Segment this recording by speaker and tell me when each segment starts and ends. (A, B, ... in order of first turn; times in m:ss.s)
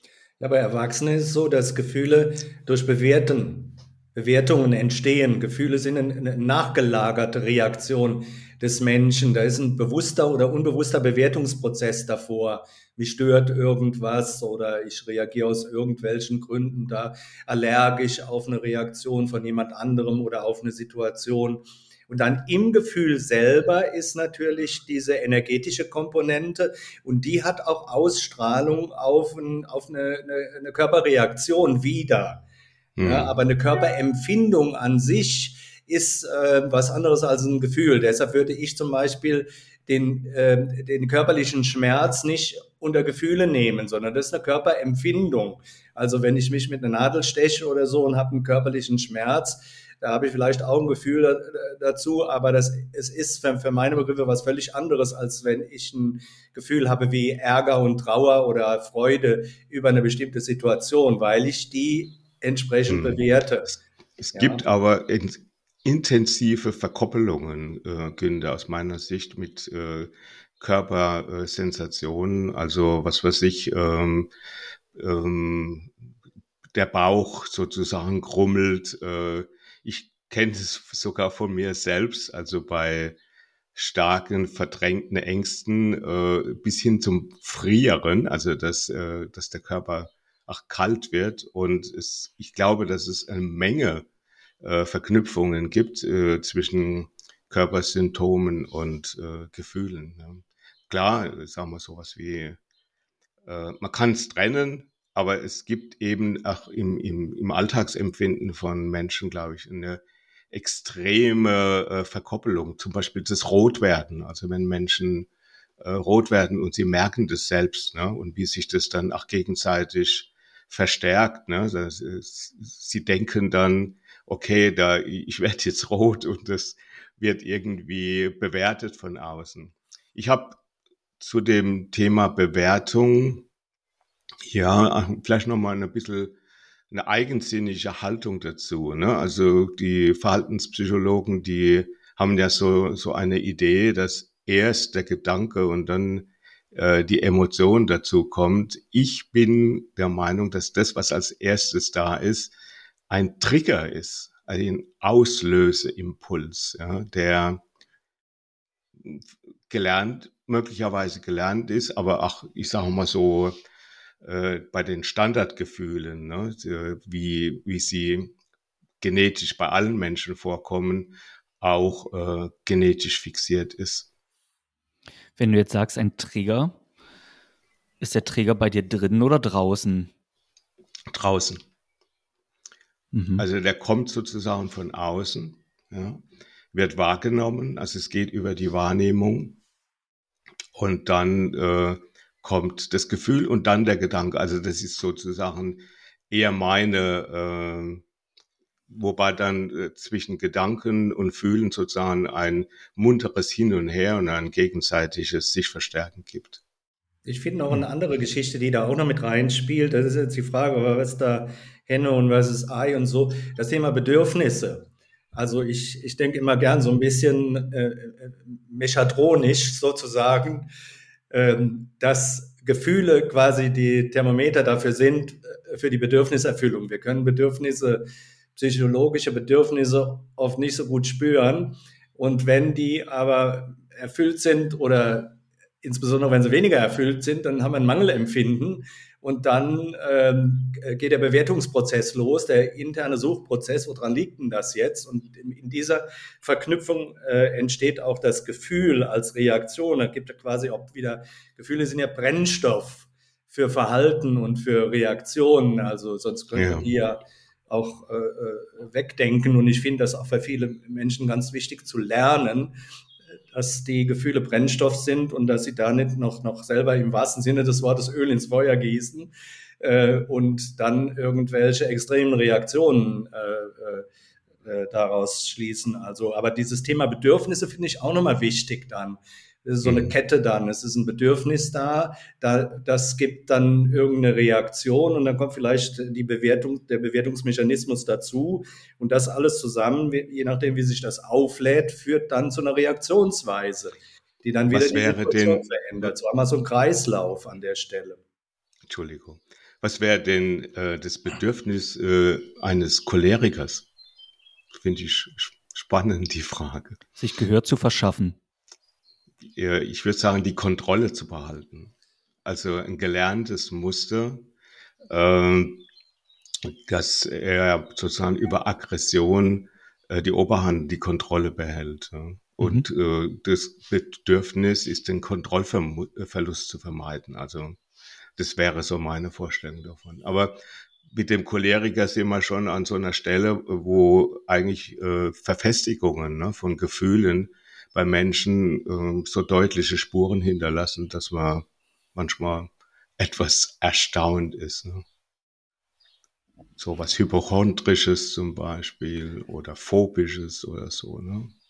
0:00.4-0:32.4 A
0:33.0-0:33.4 B
0:33.0-1:03.8 A
1:02.9-1:03.2 B
1:04.2-1:14.3 B
1:04.3-1:04.6 A
1:14.9-1:15.9 B
1:16.7-1:23.2 B
1:23.8-1:34.1 B
1:34.6-1:42.6 B
1:43.4-1:55.3 B
1:55.8-2:10.6 B
2:11.2-2:13.4 B
2:14.5-2:16.3 B
2:16.9-2:32.5 B
2:33.1-2:37.6 B
2:39.0-2:43.5 B
2:44.2-2:48.3 B
2:49.0-2:54.1 B
2:55.4-2:56.7 C
2:58.0-3:00.1 C
3:01.1-3:01.6 B
3:03.1-3:03.4 C
3:03.4-3:09.6 B
3:10.8-3:18.0 B
3:18.9-3:26.6 B
3:27.2-3:40.7 A
3:41.3-4:22.8 A
4:16.5-4:16.9 B
4:23.5-4:34.0 A
4:34.6-4:58.2 A
4:39.8-4:40.1 B
4:54.7-4:55.6 B
4:58.9-5:03.9 B
5:04.8-5:07.0 B
5:07.2-5:08.4 C
5:09.4-5:11.9 B
5:12.4-5:14.4 B
5:15.1-5:15.8 B
5:16.6-5:27.8 B
5:22.6-5:22.9 C
5:28.4-5:30.6 B
5:31.1-5:45.0 B
5:46.8-5:51.5 B